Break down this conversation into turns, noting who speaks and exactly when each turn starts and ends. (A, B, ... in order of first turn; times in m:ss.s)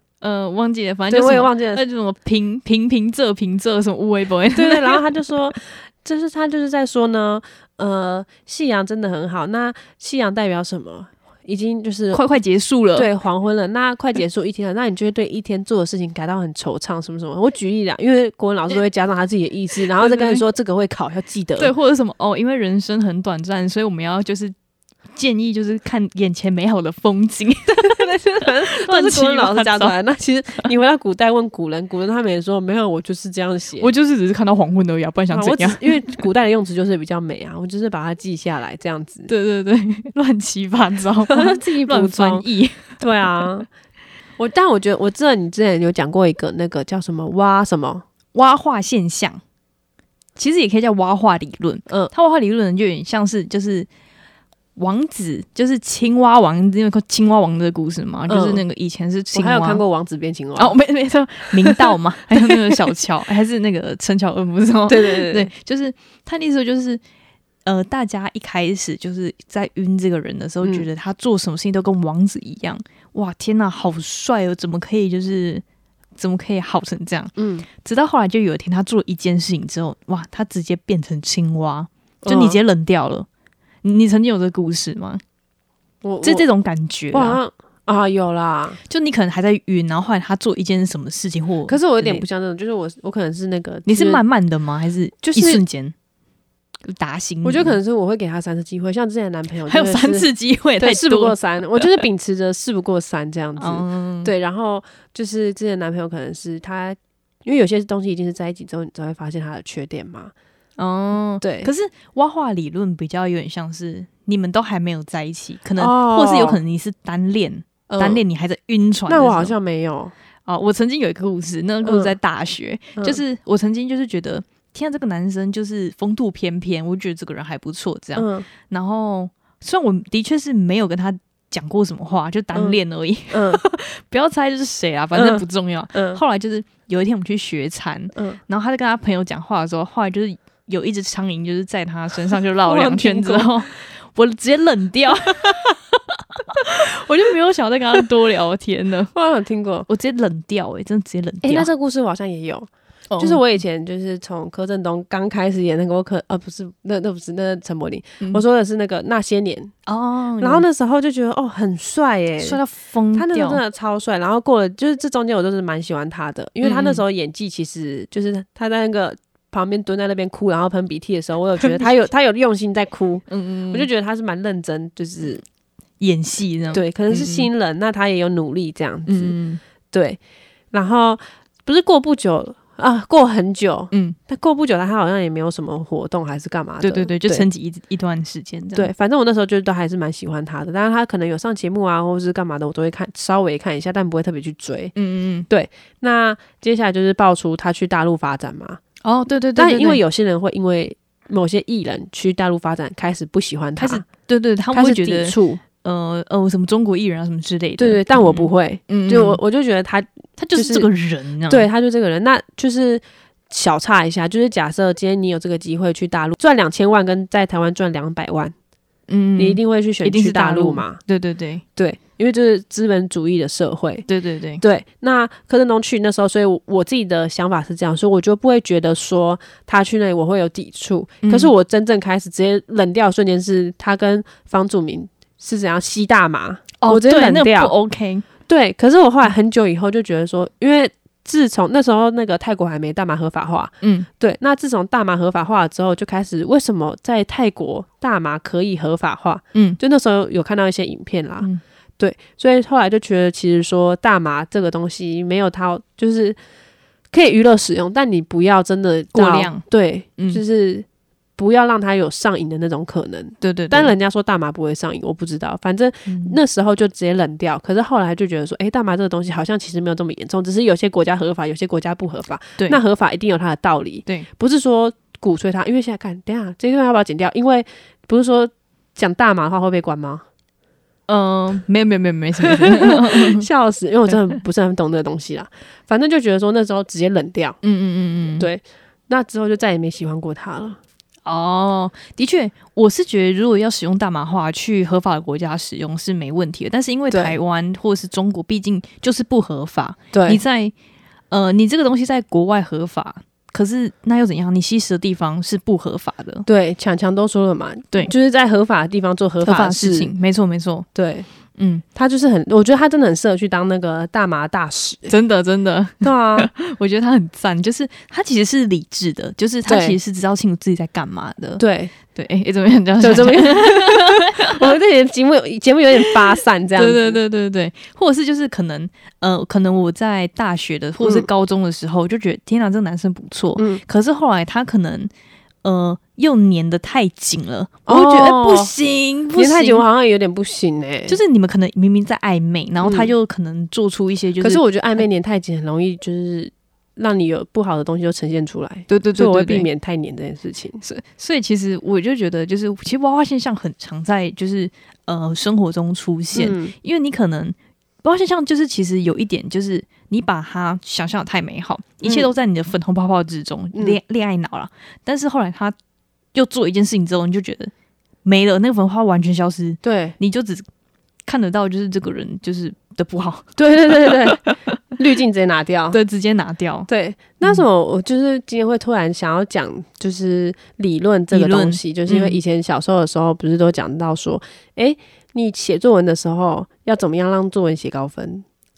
0:00.2-0:05.0 A
0:01.1-0:01.8 B
0:04.5-0:12.2 B
0:12.1-0:13.1 A
0:13.0-0:21.7 B
0:20.0-0:20.4 A
0:21.6-0:24.5 A
0:25.1-0:29.9 A
0:27.8-0:33.9 B
0:33.8-0:36.1 A
0:35.3-0:39.3 B
0:39.3-0:43.0 A
0:41.3-0:42.4 B
0:43.0-0:43.7 B
0:44.4-0:48.0 B
0:48.3-0:49.4 A
0:50.4-0:53.9 A
0:54.8-0:59.8 A
0:58.3-0:58.6 B
0:59.3-1:00.8 B
1:00.6-1:07.0 A
1:01.5-1:02.7 B
1:04.9-1:05.5 B
1:07.6-1:15.6 A
1:16.2-1:23.3 A
1:17.4-1:17.7 B
1:22.2-1:22.6 B
1:23.8-1:25.2 A
1:26.0-1:26.4 B
1:26.2-1:27.4 A
1:27.1-1:28.8 B
1:28.9-1:32.2 A
1:31.7-1:34.2 B
1:33.8-1:35.9 A
1:35.2-1:35.6 B
1:36.8-1:37.8 A
1:37.4-1:40.3 B
1:39.7-1:42.0 A
1:40.8-1:50.3 B
1:43.6-1:44.3 A
1:50.8-1:59.5 A
1:51.4-1:51.7 B
1:55.8-1:56.6 B
1:57.9-1:58.2 B
1:59.1-2:00.1 B
2:00.5-2:29.1 A
2:01.8-2:02.1 B
2:08.2-2:08.5 B
2:13.3-2:13.6 B
2:15.1-2:16.2 B
2:22.7-2:23.7 B
2:25.4-2:25.7 B
2:29.1-2:29.9 B
2:29.9-2:31.7 A
2:31.4-2:39.7 B
2:33.1-2:33.4 A
2:39.9-2:40.6 A
2:40.4-2:42.6 B
2:42.4-2:43.6 A
2:43.1-2:55.4 B
2:46.6-2:47.0 A
2:53.3-2:53.9 A
2:56.0-2:57.5 A
2:56.7-2:59.3 B
2:59.1-2:59.6 A
2:59.9-3:00.2 B
3:00.7-3:07.4 B
3:03.9-3:04.2 A
3:06.8-3:08.9 A
3:08.7-3:14.9 B
3:14.9-3:15.5 A
3:15.5-3:18.8 B
3:19.0-3:20.0 A
3:19.5-3:24.0 B
3:23.8-3:29.4 A
3:24.7-3:25.6 B
3:27.8-3:30.9 B
3:30.4-3:31.7 A
3:31.5-3:38.5 B
3:39.1-3:41.6 A
3:39.4-3:41.0 B
3:41.8-3:44.1 B
3:44.1-3:44.6 A
3:44.6-3:57.7 B
3:51.2-3:51.5 A
3:56.8-3:58.2 A
3:58.5-4:11.5 B
4:03.8-4:04.1 A
4:09.5-4:09.8 A
4:12.0-4:16.4 B
4:17.1-4:20.8 B
4:19.1-4:19.6 A
4:21.4-4:40.2 B
4:23.4-4:23.9 A
4:26.1-4:26.4 A
4:41.1-4:43.4 A
4:42.4-4:47.6 B
4:47.6-4:48.5 A
4:48.4-4:50.8 B
4:51.2-5:00.7 A
5:00.1-5:00.4 B
5:01.3-5:06.4 A
5:06.4-5:10.1 B
5:09.4-5:10.9 A
5:10.9-5:11.3 B
5:11.6-5:11.8 A
5:11.9-5:15.1 B
5:15.1-5:24.7 A
5:16.0-5:16.5 B
5:19.6-5:20.0 B
5:21.6-5:21.9 B
5:23.0-5:27.2 B
5:26.8-5:35.1 A
5:31.0-5:31.3 B
5:33.6-5:33.8 B
5:35.6-5:39.8 A
5:37.8-5:38.7 B
5:39.4-5:41.2 B
5:41.1-5:44.6 A
5:42.8-5:43.1 B
5:44.4-5:50.8 B
5:48.9-5:49.7 A
5:50.8-6:05.7 A
5:56.3-5:56.7 B
6:02.0-6:02.3 B
6:06.3-6:07.7 A
6:08.2-6:10.6 A
6:09.8-6:10.2 B
6:11.2-6:14.8 A
6:13.6-6:16.0 B
6:15.9-6:16.9 A
6:16.9-6:28.4 B
6:21.3-6:22.4 A